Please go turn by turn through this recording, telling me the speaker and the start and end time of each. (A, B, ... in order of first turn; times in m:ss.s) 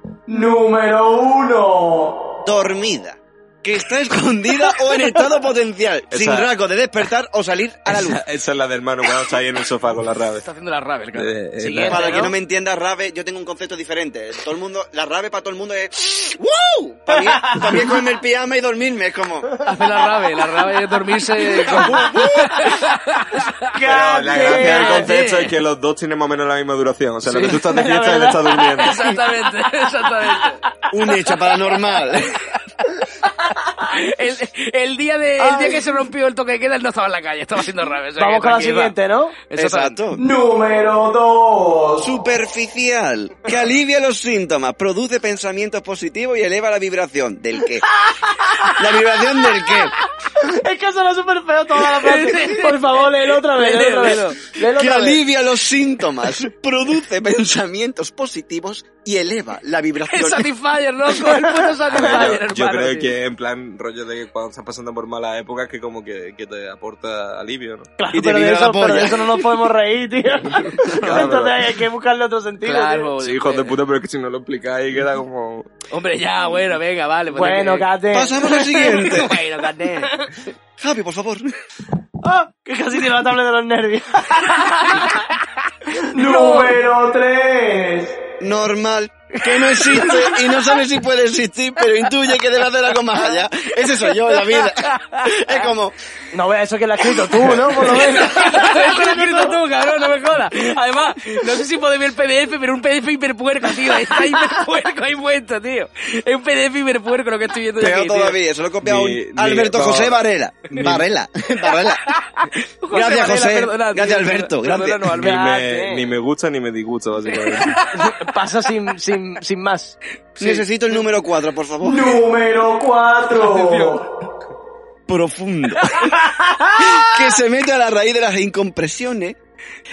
0:00.3-0:02.2 A
0:02.4-0:08.2 B
0:06.1-0:06.5 C
0:07.9-0:10.4 C
0:10.4-0:11.4 D
0:11.1-0:12.3 C
0:11.6-0:12.3 A
0:11.9-0:19.6 B
0:17.1-0:17.7 A
0:19.6-0:23.7 D
0:21.5-0:22.2 A
0:21.8-0:22.5 B
0:23.7-0:25.1 A
0:23.8-0:29.0 C
0:24.4-0:25.5 D
0:27.3-0:28.9 A
0:28.8-0:30.6 D
0:30.2-0:30.4 A
0:30.9-0:32.3 B
0:32.5-0:33.1 D
0:33.4-0:33.8 A
0:33.8-0:40.0 D
0:35.4-0:35.8 A
0:38.2-0:39.4 A
0:39.6-0:40.2 B
0:40.1-0:42.1 A
0:42.0-0:47.9 B
0:48.1-0:48.7 A
0:48.8-0:49.9 B
0:50.3-0:55.2 A
0:51.8-0:54.4 D
0:54.7-1:00.5 B
1:00.1-1:03.1 D
1:01.2-1:03.0 A
1:01.9-1:07.9 C
1:08.0-1:13.1 A
1:08.1-1:09.5 B
1:10.7-1:11.6 C
1:10.8-1:11.4 D
1:12.6-1:13.8 D
1:13.2-1:15.7 C
1:15.9-1:17.9 D
1:17.3-1:19.0 A
1:18.1-1:19.4 B
1:18.4-1:20.2 D
1:20.8-1:21.5 B
1:22.2-1:25.3 A
1:24.4-1:26.7 D
1:26.0-1:28.2 A
1:28.4-1:36.0 B
1:29.9-1:30.2 A
1:29.9-1:30.2 D
1:34.2-1:35.6 D
1:36.3-1:39.5 A
1:37.5-1:48.4 D
1:47.8-1:52.1 B
1:48.8-1:51.0 C
1:51.8-1:55.3 D
1:52.9-1:55.2 B
1:55.1-1:56.1 A
1:55.1-1:57.8 C
1:57.2-1:58.3 D
1:57.9-2:00.0 A
2:00.3-2:01.0 D
2:00.4-2:02.1 B
2:01.8-2:04.0 A
2:03.5-2:03.8 D
2:05.1-2:05.9 B
2:06.0-2:06.8 A
2:06.8-2:09.4 B